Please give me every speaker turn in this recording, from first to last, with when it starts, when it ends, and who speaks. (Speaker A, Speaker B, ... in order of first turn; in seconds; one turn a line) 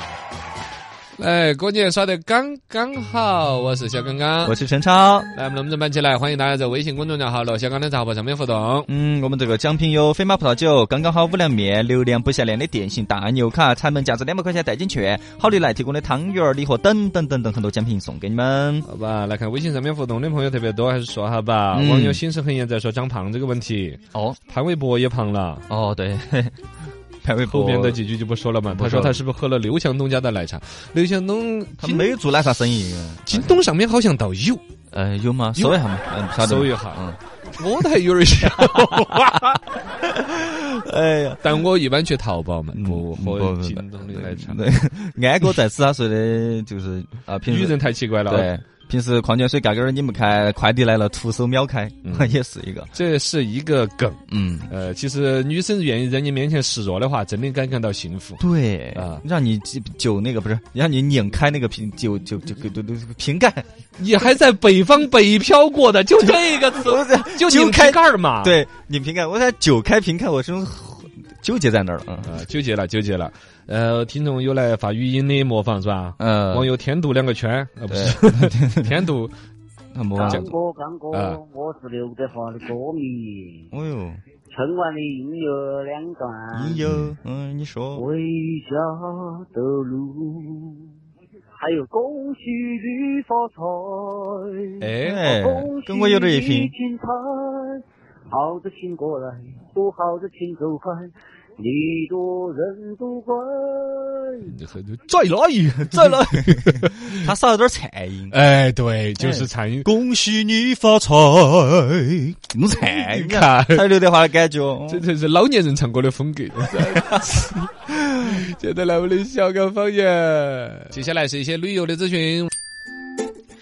Speaker A: 1.2-4.5
Speaker B: 4.4-5.3
Speaker A: 5.3-8.9
Speaker B: 8.9-18.9
Speaker A: 18.9-25.6
Speaker B: 21.7-22.2
Speaker B: 25.7-26.6
Speaker B: 27.2-28.0
Speaker A: 27.5-32.2
Speaker B: 28.7-29.2
Speaker B: 31.8-33.6
Speaker A: 33.3-34.6
Speaker B: 34.9-37.2
Speaker A: 36.4-37.0
Speaker A: 37.5-39.6
Speaker B: 38.4-39.0
Speaker B: 40.0-41.5
Speaker A: 41.4-44.6
Speaker B: 42.7-52.9
Speaker A: 47.5-48.5
Speaker A: 52.0-52.4
Speaker A: 52.9-58.4
Speaker B: 54.3-54.7
Speaker B: 58.4-63.6
Speaker A: 58.9-59.2
Speaker A: 64.0-68.6
Speaker B: 66.2-72.4
Speaker A: 72.2-79.3
Speaker B: 76.2-76.7
Speaker B: 77.9-78.9
Speaker B: 79.9-80.5
Speaker C: 80.2-83.7
Speaker A: 80.2-80.5
Speaker A: 81.1-81.4
Speaker B: 83.7-84.2
Speaker C: 84.5-86.8
Speaker B: 86.5-88.0
Speaker C: 88.0-90.9
Speaker C: 91.6-104.5
Speaker A: 94.8-95.2
Speaker B: 95.0-96.7
Speaker A: 104.5-107.3
Speaker B: 105.9-108.4
Speaker A: 108.3-109.9
Speaker B: 109.2-115.0
Speaker A: 112.8-113.9
Speaker A: 114.9-122.5